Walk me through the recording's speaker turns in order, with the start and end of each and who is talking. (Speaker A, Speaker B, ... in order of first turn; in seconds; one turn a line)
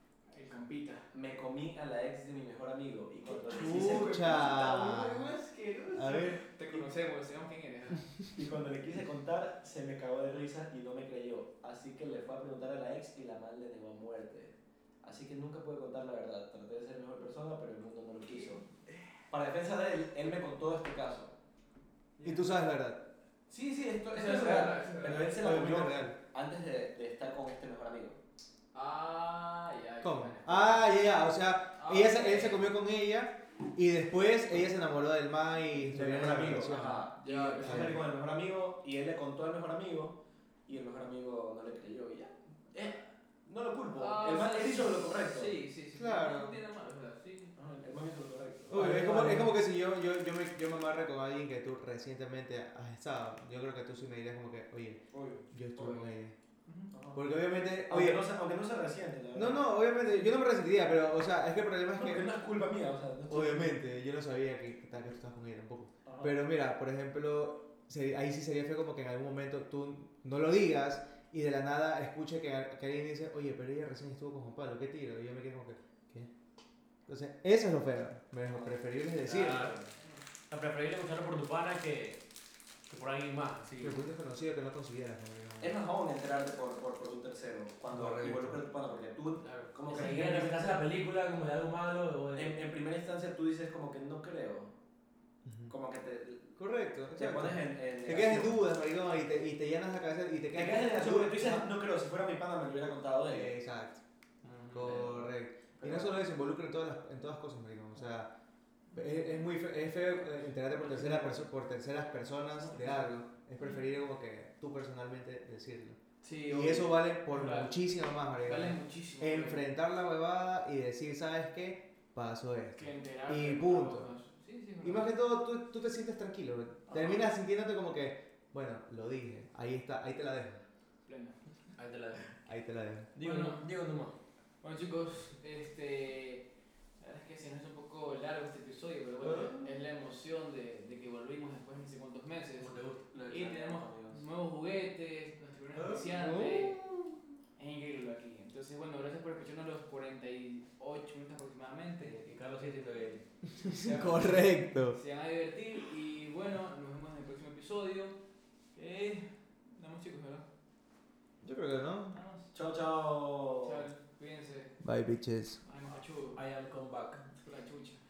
Speaker A: 0.3-1.1
Speaker B: 1.1-6.8
Speaker C: 3.5-5.3
Speaker C: 5.9-6.4
Speaker A: 5.9-8.1
Speaker B: 8.3-18.6
Speaker B: 19.3-21.3
Speaker C: 22.2-23.0
Speaker B: 23.5-28.2
Speaker A: 24.1-25.4
Speaker C: 25.4-26.1
Speaker A: 28.7-30.9
Speaker C: 30.0-38.0
Speaker A: 31.8-32.7
Speaker B: 35.7-45.6
Speaker A: 37.2-38.0
Speaker A: 43.9-47.5
Speaker C: 46.0-46.5
Speaker B: 47.5-48.7
Speaker C: 48.7-56.3
Speaker D: 48.7-49.5
Speaker B: 55.1-56.1
Speaker A: 56.6-56.9
Speaker B: 56.9-57.2
Speaker C: 57.1-58.2
Speaker B: 57.8-59.6
Speaker C: 59.3-62.3
Speaker B: 62.0-63.8
Speaker C: 63.3-76.3
Speaker B: 66.0-66.3
Speaker C: 77.1-79.7
Speaker D: 79.2-79.9
Speaker D: 80.5-82.2
Speaker D: 82.9-84.0
Speaker C: 83.8-85.7
Speaker B: 85.6-90.7
Speaker C: 87.9-88.6
Speaker D: 89.4-92.6
Speaker B: 92.3-94.7
Speaker C: 95.4-95.7
Speaker B: 95.7-96.6
Speaker C: 96.6-101.7
Speaker B: 97.1-98.6
Speaker B: 100.5-103.5
Speaker C: 103.2-104.0
Speaker D: 104.4-105.2
Speaker C: 104.7-108.3
Speaker B: 104.8-105.1
Speaker B: 105.8-106.2
Speaker C: 108.9-124.1
Speaker A: 108.9-109.4
Speaker A: 110.7-111.4
Speaker A: 112.5-113.8
Speaker A: 116.2-117.8
Speaker A: 118.4-119.6
Speaker A: 122.8-125.1
Speaker C: 124.8-130.6
Speaker A: 131.1-131.4
Speaker D: 131.8-132.3
Speaker C: 132.4-133.1
Speaker D: 133.1-134.2
Speaker A: 133.2-133.6
Speaker A: 134.6-136.4
Speaker A: 137.0-142.7
Speaker D: 139.2-139.6
Speaker D: 142.6-143.1
Speaker B: 143.1-144.2
Speaker A: 143.3-146.8
Speaker D: 145.8-146.1
Speaker C: 146.2-147.1
Speaker A: 147.6-152.1
Speaker D: 152.0-153.2
Speaker C: 153.6-155.0
Speaker A: 153.6-158.2
Speaker A: 158.7-160.4
Speaker C: 161.4-162.2
Speaker A: 162.1-162.5
Speaker B: 162.5-163.8
Speaker A: 163.6-164.8
Speaker C: 164.8-165.6
Speaker A: 165.6-166.4
Speaker D: 166.3-167.3
Speaker A: 167.4-168.0